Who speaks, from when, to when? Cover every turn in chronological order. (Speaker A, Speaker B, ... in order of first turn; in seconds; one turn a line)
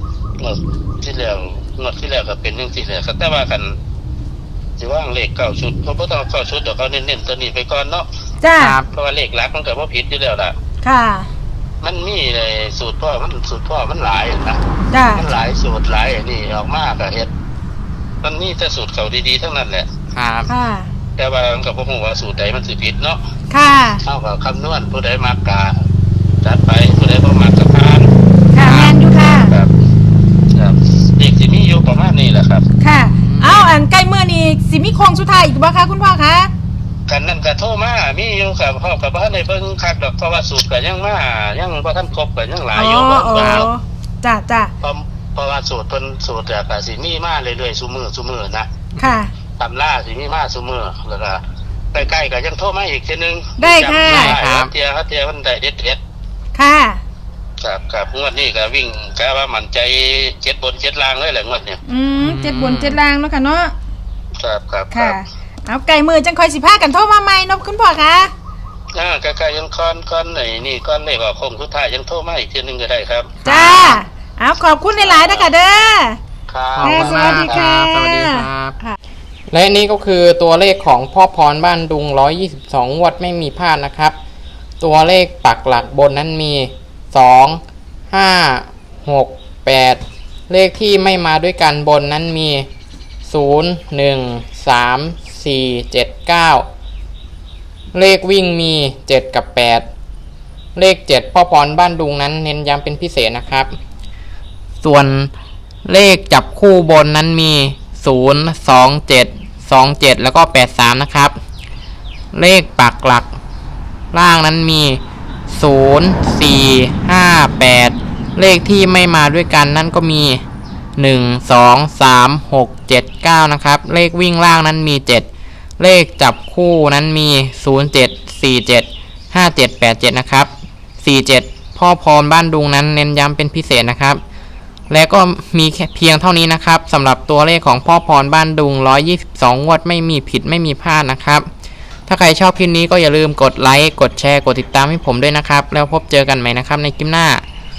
Speaker A: 0.4-3.7
Speaker A: 4.8-8.1
Speaker B: 8.4-8.8
Speaker C: 8.6-8.9
Speaker A: 8.9-10.5
Speaker B: 10.8-11.3
Speaker A: 11.8-14.6
Speaker B: 14.9-15.2
Speaker A: 15.1-17.3
Speaker A: 18.2-19.9
Speaker C: 20.1-20.5
Speaker B: 20.5-20.9
Speaker A: 21.2-23.2
Speaker B: 23.5-24.0
Speaker A: 24.0-25.8
Speaker A: 26.4-28.1
Speaker B: 28.5-29.5
Speaker C: 28.6-29.0
Speaker A: 29.2-29.7
Speaker A: 30.6-32.6
Speaker B: 32.8-36.5
Speaker C: 33.2-33.7
Speaker A: 37.1-43.7
Speaker B: 42.8-44.7
Speaker C: 43.3-43.7
Speaker A: 44.8-48.7
Speaker B: 49.0-49.3
Speaker A: 49.6-51.4
Speaker A: 51.9-56.0
Speaker B: 53.6-54.4
Speaker C: 54.0-54.7
Speaker B: 56.6-57.0
Speaker A: 57.6-61.8
Speaker B: 61.9-63.7
Speaker C: 62.2-63.0
Speaker A: 64.4-65.2
Speaker B: 64.9-68.3
Speaker A: 69.0-73.4
Speaker C: 73.4-74.0
Speaker B: 73.5-76.2
Speaker A: 75.0-75.5
Speaker A: 76.5-77.6
Speaker C: 76.8-78.8
Speaker B: 76.8-79.0
Speaker C: 79.5-84.2
Speaker C: 84.8-92.7
Speaker C: 93.3-96.7
Speaker C: 97.9-99.9
Speaker C: 100.8-103.8
Speaker C: 104.8-105.3
Speaker C: 105.9-111.3
Speaker C: 112.3-113.3
Speaker C: 114.1-120.4
Speaker C: 121.0-125.3
Speaker C: 125.8-134.2
Speaker C: 134.9-141.5
Speaker C: 142.1-147.4